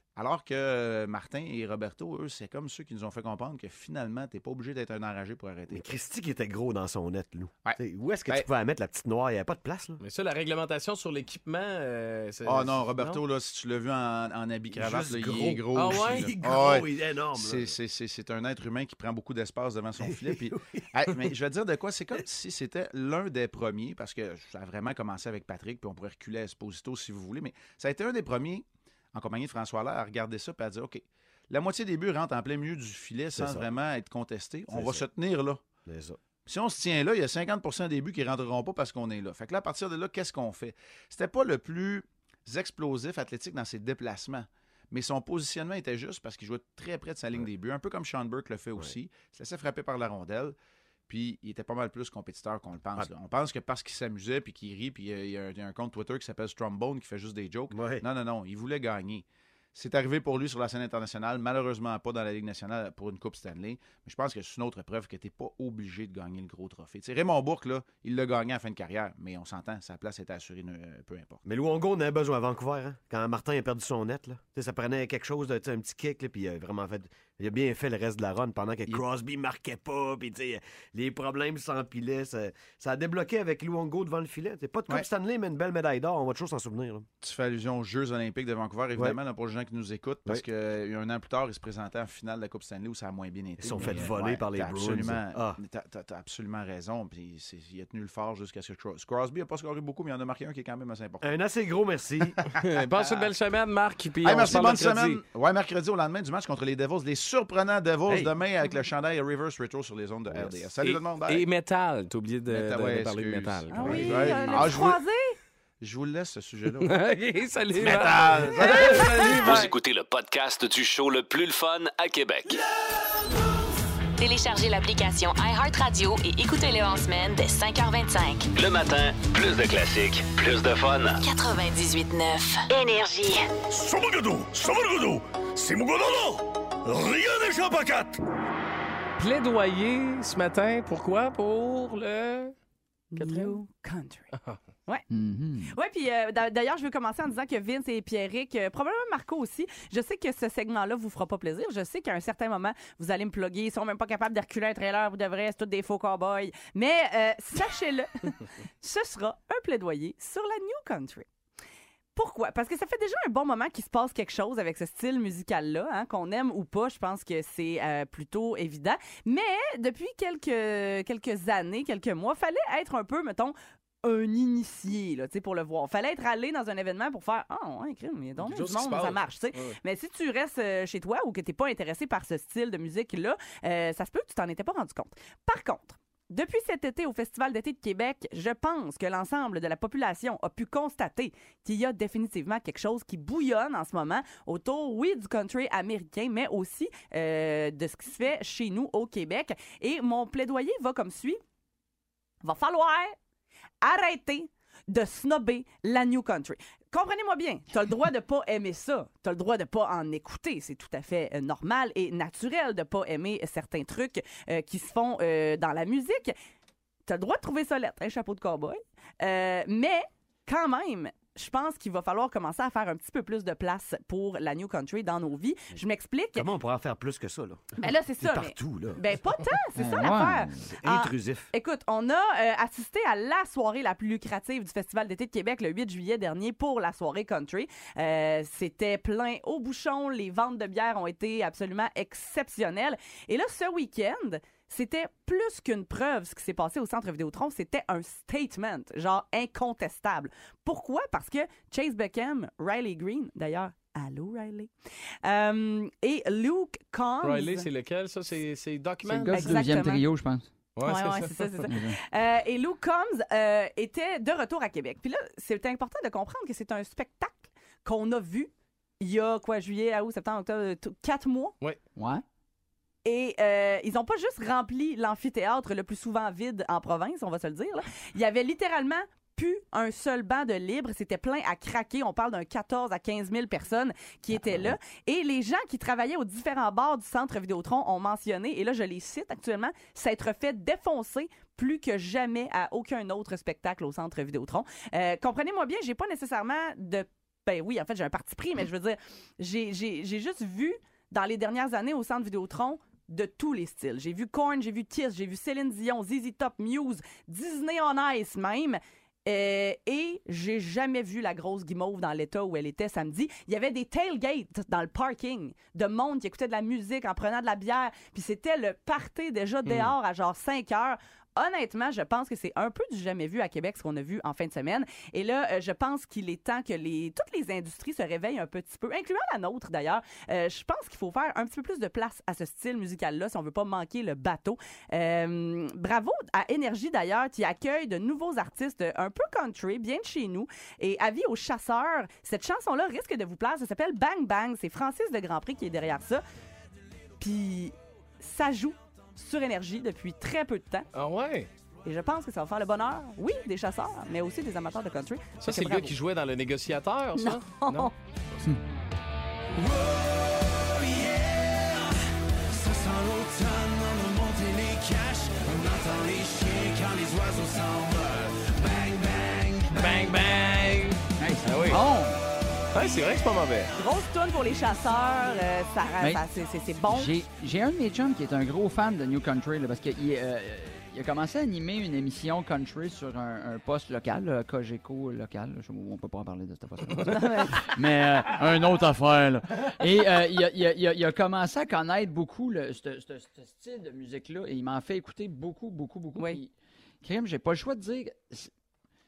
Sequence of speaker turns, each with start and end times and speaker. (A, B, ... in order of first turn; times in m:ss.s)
0:00.2-0:05.9 A
0:05.7-0:10.0 B
0:07.6-0:08.5 A
0:10.0-0:13.2 C
0:12.4-0:35.6 A
0:14.8-0:17.7 B
0:15.7-0:16.3 C
0:20.0-0:21.3 B
0:33.4-0:33.7 B
0:34.7-0:35.0 B
0:35.9-0:36.2 B
0:36.5-0:50.6 A
0:51.1-1:11.4 A
0:57.7-0:58.0 B
1:11.4-1:27.1 B
1:27.2-1:41.2 A
1:33.6-1:35.6 B
1:41.2-1:42.5 B
1:42.6-1:45.2 C
1:44.2-1:51.5 A
1:50.8-1:54.7 C
1:52.5-1:55.0 A
1:53.7-1:55.4 D
1:55.8-1:57.0 A
1:56.8-1:59.7 C
1:57.7-1:59.5 A
1:59.3-2:02.6 E
2:04.2-2:08.5 F
2:08.5-2:11.2 E
2:11.2-2:13.4 F
2:13.7-2:18.2 G
2:19.2-2:22.6 C
2:23.1-2:24.3 D
2:23.2-2:23.6 C
2:25.1-2:25.7 H
2:25.7-2:41.3 D
2:42.2-3:21.4 D
2:58.4-2:59.8 C
3:22.4-3:23.2 D
3:23.8-3:36.4 D
3:37.1-3:46.5 D
3:46.4-3:49.1 B
3:47.8-4:14.7 D
3:49.8-3:50.5 H
3:50.7-3:51.5 B
4:15.2-4:17.7 D
4:17.2-4:19.6 C
4:19.1-4:20.5 H
4:19.3-4:20.0 D
4:20.8-4:21.5 C
4:20.8-4:31.6 D
4:21.7-4:22.0 H
4:32.0-4:32.2 H
4:33.0-5:46.2 D
5:19.7-5:19.9 C
5:47.2-5:50.9 D
5:50.9-5:51.5 C
5:51.8-5:56.0 D
5:55.4-5:58.5 C
5:57.2-5:57.9 D
5:59.6-6:01.8 G
6:02.5-6:09.8 G
6:09.7-6:11.8 C
6:11.2-6:12.2 H
6:12.7-6:13.7 C
6:13.8-6:17.1 D
6:16.9-6:36.5 H
6:27.1-6:27.7 D
6:37.0-6:38.5 H